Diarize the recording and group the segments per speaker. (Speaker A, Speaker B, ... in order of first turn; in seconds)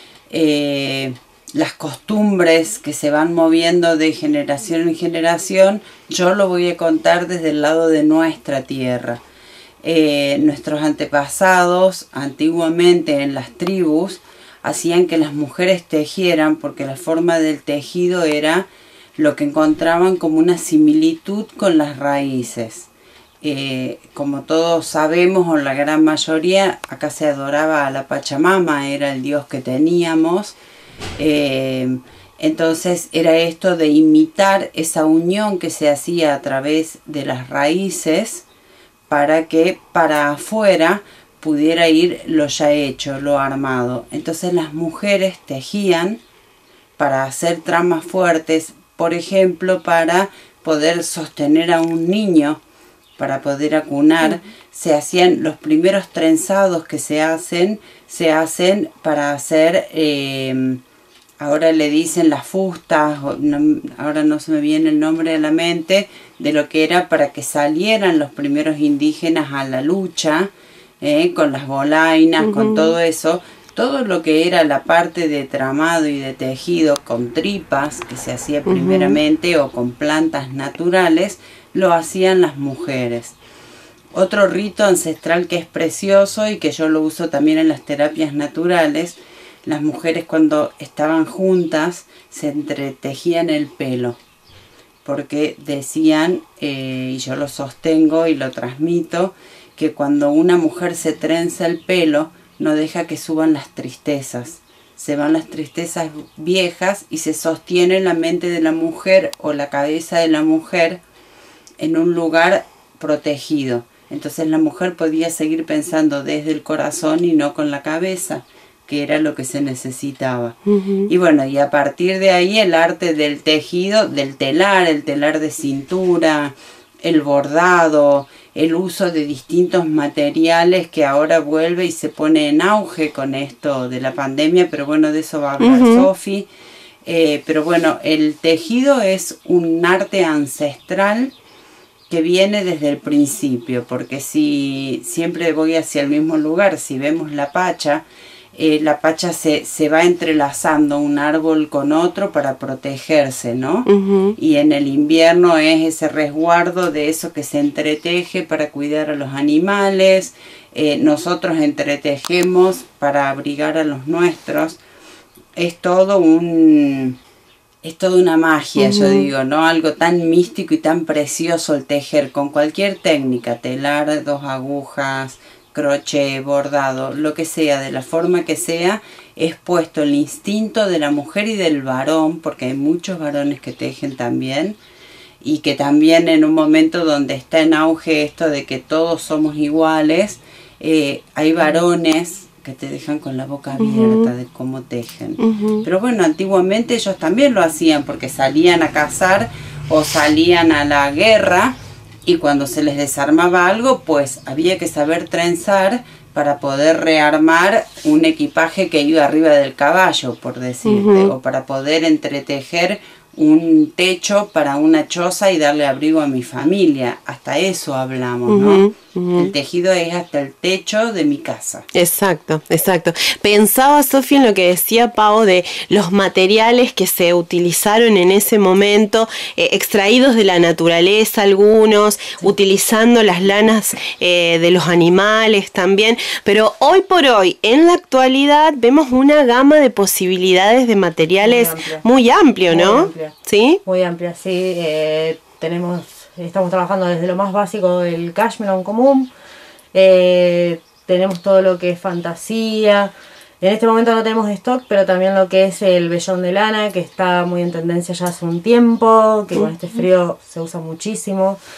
Speaker A: 0.3-9.2, 9.8-22.9, 23.4-30.6, 31.2-38.4, 39.1-46.2, 47.0-52.6, 53.2-60.8, 61.4-70.5, 71.0-83.4, 84.1-94.2, 95.0-111.0, 111.8-120.5, 121.1-136.5, 137.0-141.3, 142.1-164.8, 165.6-167.2, 167.8-184.8, 185.4-201.7, 202.2-221.8
Speaker B: 72.4-73.0, 78.7-79.2, 120.7-121.1, 135.6-136.1, 153.9-154.3, 168.8-169.3, 193.8-194.3, 195.4-195.9, 210.8-211.3, 218.5-219.5, 221.9-243.8
Speaker C: 241.4-242.0, 242.7-243.3, 243.8-249.3, 249.9-261.6